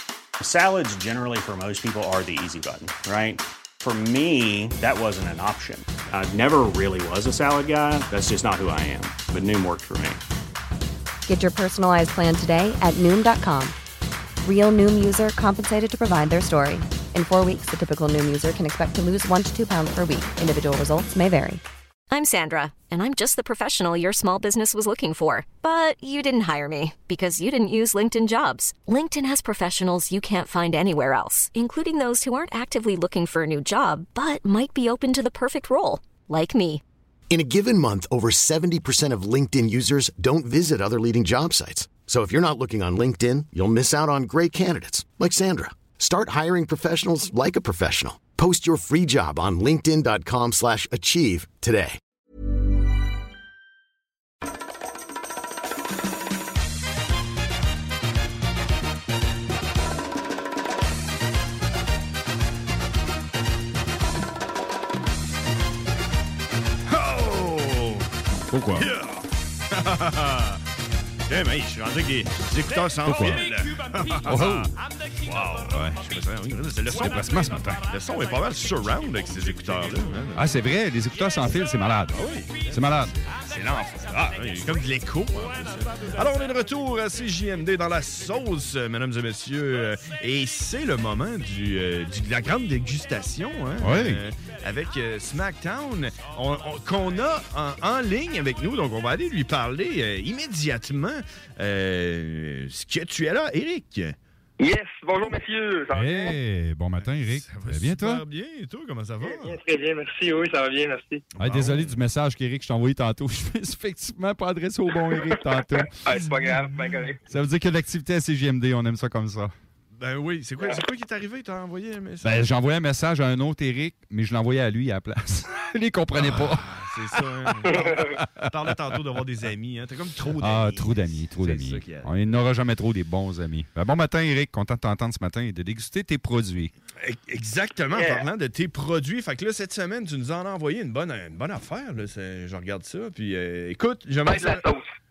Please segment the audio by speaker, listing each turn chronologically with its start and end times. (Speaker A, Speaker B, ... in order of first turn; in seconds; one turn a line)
Speaker A: 0.4-10.2
Speaker B: 11.3-13.8
Speaker B: 14.4-21.6
Speaker C: 22.1-36.8
Speaker D: 37.3-52.0
Speaker E: 66.9-68.1
Speaker F: 68.5-68.9
Speaker E: 68.8-70.6
Speaker E: 71.3-80.5
Speaker F: 73.0-73.5
Speaker F: 74.2-74.7
Speaker F: 76.9-77.9
Speaker F: 80.3-83.3
Speaker E: 82.1-104.2
Speaker F: 93.8-94.3
Speaker G: 104.6-106.3
Speaker F: 105.9-108.2
Speaker E: 106.0-106.3
Speaker E: 107.0-109.6
Speaker G: 109.2-111.2
Speaker E: 111.3-112.0
Speaker F: 111.4-115.9
Speaker G: 115.9-117.2
Speaker E: 116.1-116.7
Speaker F: 117.3-119.5
Speaker E: 120.0-122.5
Speaker F: 122.2-126.8
Speaker E: 126.2-132.2
Speaker F: 127.5-128.2
Speaker F: 130.3-136.7
Speaker E: 137.0-144.7
Speaker G: 137.9-138.2
Speaker G: 144.2-144.9